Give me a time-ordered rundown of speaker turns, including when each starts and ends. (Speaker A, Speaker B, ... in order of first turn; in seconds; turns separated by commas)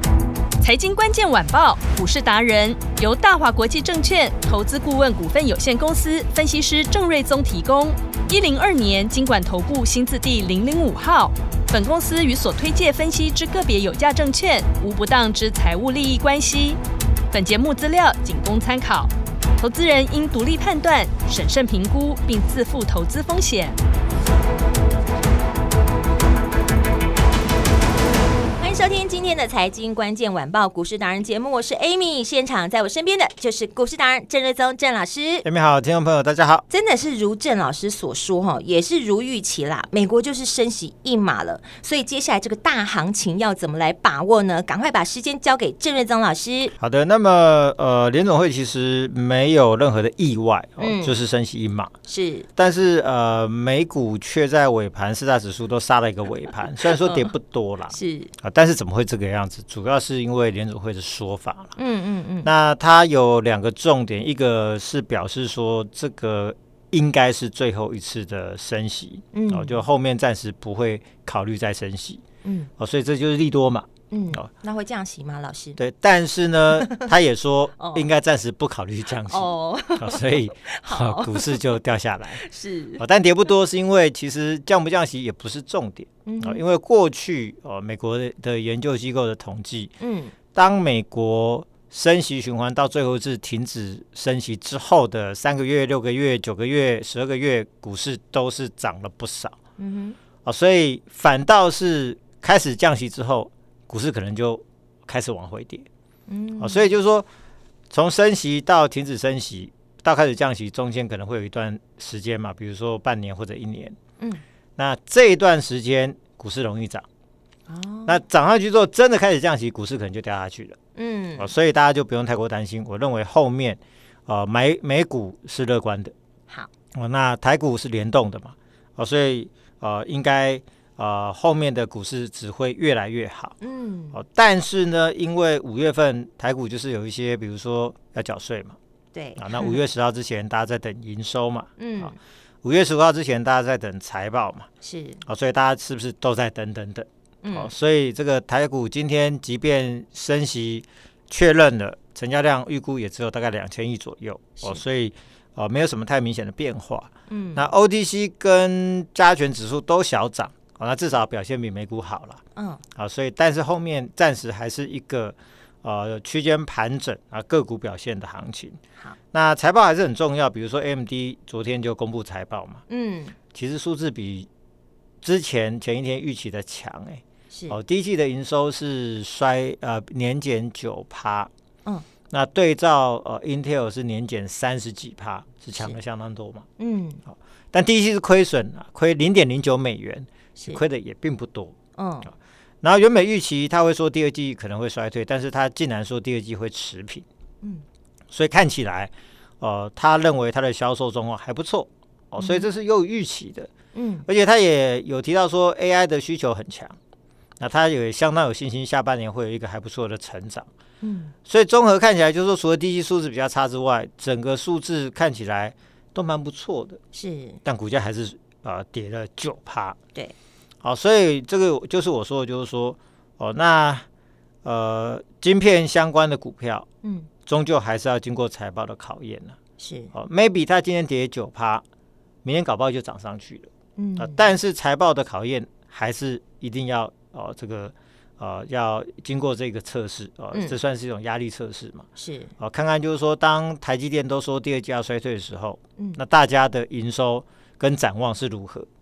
Speaker A: 0.6-16.8, Speaker A: 17.3-23.8, Speaker B: 28.6-35.5, Speaker C: 35.5-36.6, Speaker B: 36.7-46.7, Speaker C: 46.8-51.9, Speaker B: 50.8-51.2, Speaker B: 52.0-52.5, Speaker C: 52.5-61.8, Speaker B: 57.9-58.3, Speaker B: 61.8-62.5, Speaker C: 62.4-72.2, Speaker B: 69.3-69.8, Speaker B: 72.4-72.7, Speaker C: 72.8-74.5, Speaker B: 74.1-75.8, Speaker C: 75.8-82.4, Speaker B: 76.8-77.1, Speaker B: 77.8-78.1, Speaker B: 79.2-81.6, Speaker B: 82.3-83.0, Speaker C: 83.0-89.9, Speaker B: 86.2-86.6, Speaker B: 90.0-90.3, Speaker C: 90.5-99.6, Speaker B: 99.8-100.2, Speaker C: 100.4-105.9, Speaker B: 106.3-106.8, Speaker C: 106.6-107.2, Speaker C: 107.9-114.0, Speaker C: 114.8-117.0, Speaker B: 117.7-118.2, Speaker C: 118.1-120.8, Speaker B: 121.0-121.5, Speaker C: 121.4-126.1, Speaker C: 126.9-133.6, Speaker B: 133.6-134.2, Speaker C: 134.1-138.8, Speaker B: 139.1-139.8, Speaker C: 139.4-144.7, Speaker B: 141.8-142.2, Speaker B: 144.8-145.2, Speaker C: 145.2-162.4, Speaker B: 147.4-147.7, Speaker B: 157.3-157.7, Speaker B: 162.6-162.8, Speaker C: 163.0-168.8, Speaker C: 169.3-172.8, Speaker B: 172.9-173.4, Speaker C: 173.5-174.5, Speaker C: 175.2-181.5, Speaker B: 177.5-177.8, Speaker C: 182.3-186.7, Speaker B: 186.8-187.2, Speaker C: 187.7-191.8, Speaker B: 190.6-190.8, Speaker B: 192.0-192.3, Speaker C: 192.8-197.2, Speaker C: 198.3-203.7, Speaker B: 202.4-202.7, Speaker B: 203.9-204.3, Speaker C: 204.2-207.0, Speaker C: 207.6-210.7, Speaker B: 211.0-211.3, Speaker C: 211.5-217.0, Speaker B: 217.1-217.6, Speaker C: 217.6-220.0, Speaker C: 220.8-224.1, Speaker C: 224.6-226.9, Speaker B: 227.0-227.3, Speaker C: 227.5-229.6, Speaker B: 229.8-230.1, Speaker C: 230.1-231.8, Speaker C: 232.4-242.1, Speaker B: 234.0-234.5, Speaker B: 240.5-240.8, Speaker B: 242.2-242.5, Speaker C: 242.6-248.9